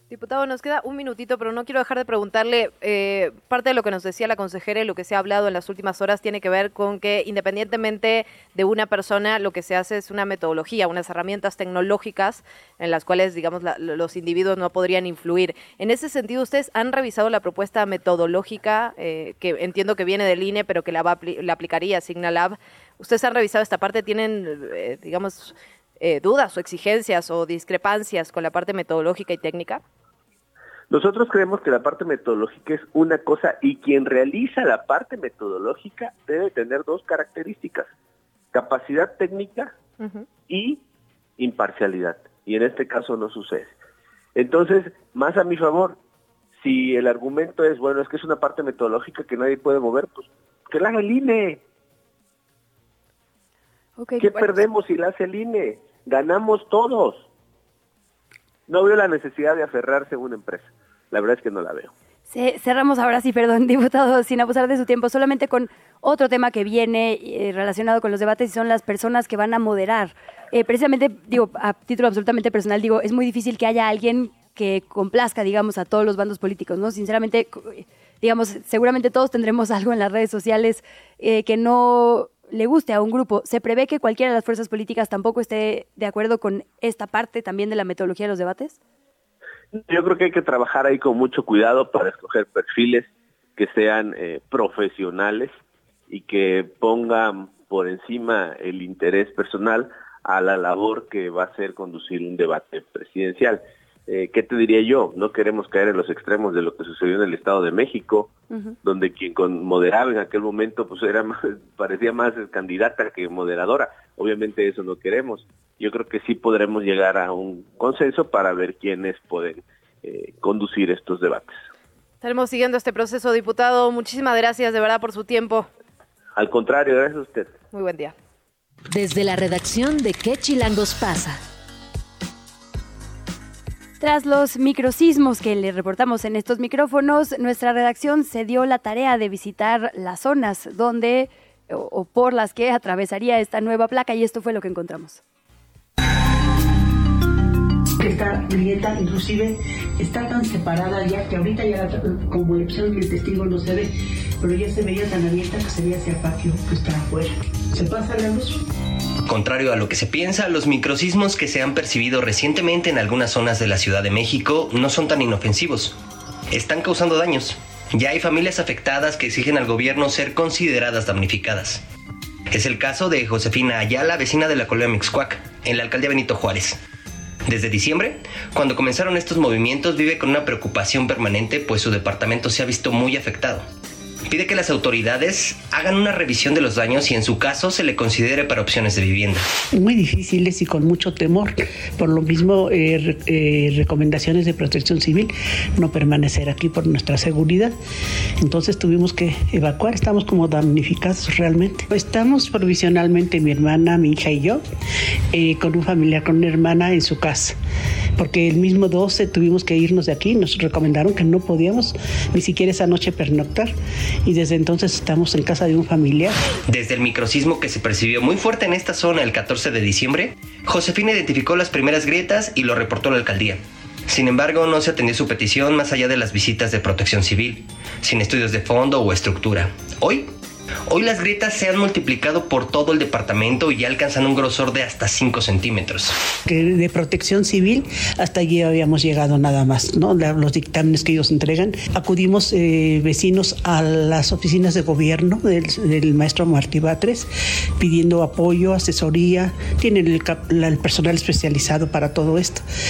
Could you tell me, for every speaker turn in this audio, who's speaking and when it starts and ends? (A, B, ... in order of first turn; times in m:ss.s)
0:00.1-0:29.8 A
0:30.9-0:37.9 B
0:38.5-0:39.7 B
0:40.0-0:40.2 A
0:40.5-0:40.8 B
0:41.4-0:43.8 B
0:44.3-0:46.0 B
0:46.6-0:51.6 B
0:54.0-0:54.5 C
0:54.2-0:57.3 B
0:58.7-1:01.9 B
1:02.3-1:28.8 C
1:29.7-1:35.5 B
1:36.1-2:01.6 B
2:02.2-2:05.7 A
2:06.4-2:07.5 B
2:07.7-2:08.1 A
2:08.9-2:11.4 D
2:14.0-2:25.2 C
2:28.0-2:38.6 E
2:39.3-2:46.0 F
2:46.5-2:51.8 F
2:52.5-2:56.8 F
2:57.5-3:03.6 F
3:04.3-3:09.4 F
3:09.7-3:17.8 E
3:18.4-3:24.6 E
3:25.3-3:27.6 E
3:28.2-3:33.7 E
3:34.2-3:36.3 E
3:36.7-3:50.3 F
3:50.9-3:56.1 F
3:56.5-4:12.6 E